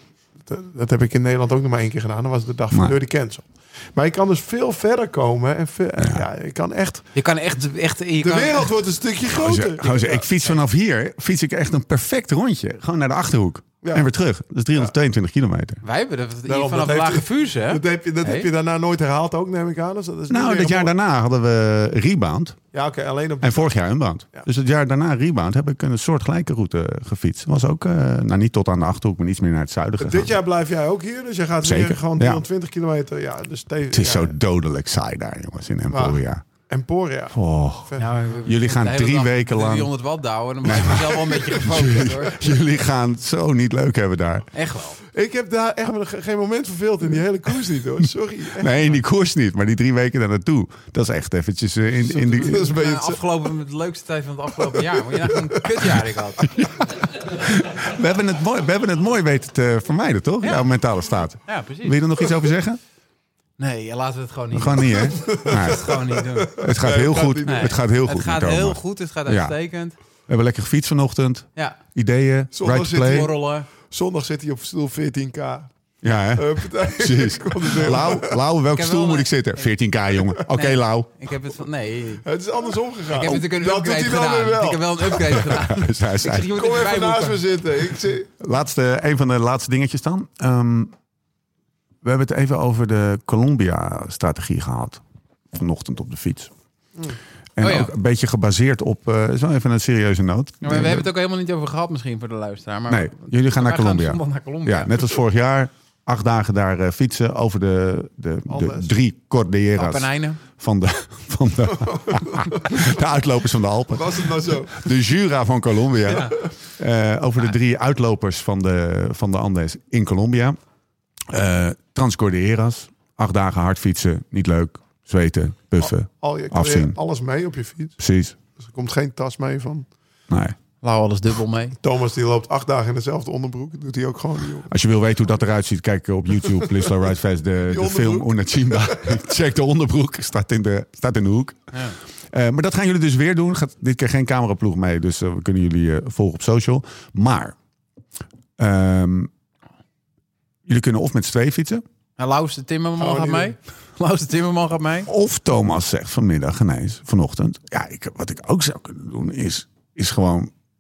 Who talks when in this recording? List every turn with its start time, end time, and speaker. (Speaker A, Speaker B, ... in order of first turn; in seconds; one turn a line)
Speaker A: 0.4-7.0
Speaker B: 6.0-6.2
Speaker C: 7.2-8.7
Speaker A: 8.2-10.3
Speaker B: 9.3-15.8
Speaker A: 13.8-14.1
Speaker C: 15.8-18.5
Speaker A: 16.5-20.9
Speaker B: 20.3-22.6
Speaker A: 22.7-23.8
Speaker B: 23.4-30.3
Speaker A: 30.0-34.3
Speaker B: 31.6-32.4
Speaker B: 33.9-36.4
Speaker A: 35.9-38.1
Speaker B: 37.3-39.9
Speaker C: 38.0-42.6
Speaker B: 40.6-44.5
Speaker C: 44.5-45.0
Speaker A: 45.0-49.0
Speaker B: 48.6-52.7
Speaker C: 52.1-56.5
Speaker A: 52.3-53.2
Speaker A: 54.6-55.7
Speaker B: 56.4-62.8
Speaker C: 60.4-60.7
Speaker C: 61.5-62.0
Speaker C: 63.6-66.7
Speaker B: 64.5-65.9
Speaker A: 65.1-67.7
Speaker B: 66.6-69.6
Speaker C: 67.5-69.9
Speaker B: 70.3-73.3
Speaker A: 72.5-75.7
Speaker C: 73.0-73.7
Speaker B: 76.0-81.1
Speaker A: 76.3-78.4
Speaker C: 78.7-79.7
Speaker C: 80.5-82.3
Speaker A: 82.2-85.2
Speaker C: 83.1-87.4
Speaker B: 85.4-86.5
Speaker A: 86.4-88.3
Speaker B: 88.4-90.9
Speaker B: 92.0-96.5
Speaker B: 97.6-101.1
Speaker C: 97.6-97.9
Speaker C: 100.6-105.1
Speaker B: 102.9-120.6
Speaker A: 108.5-108.9
Speaker C: 109.8-110.4
Speaker A: 111.8-112.9
Speaker A: 113.9-114.9
Speaker A: 116.1-116.3
Speaker B: 121.3-127.0
Speaker A: 125.8-128.0
Speaker B: 128.0-128.3
Speaker A: 128.6-129.9
Speaker B: 130.3-130.6
Speaker C: 130.8-131.8
Speaker A: 131.8-134.7
Speaker B: 134.7-141.7
Speaker A: 137.7-139.2
Speaker B: 142.3-147.6
Speaker B: 148.6-149.3
Speaker B: 150.7-151.8
Speaker C: 152.2-155.1
Speaker A: 153.0-153.6
Speaker B: 155.1-160.5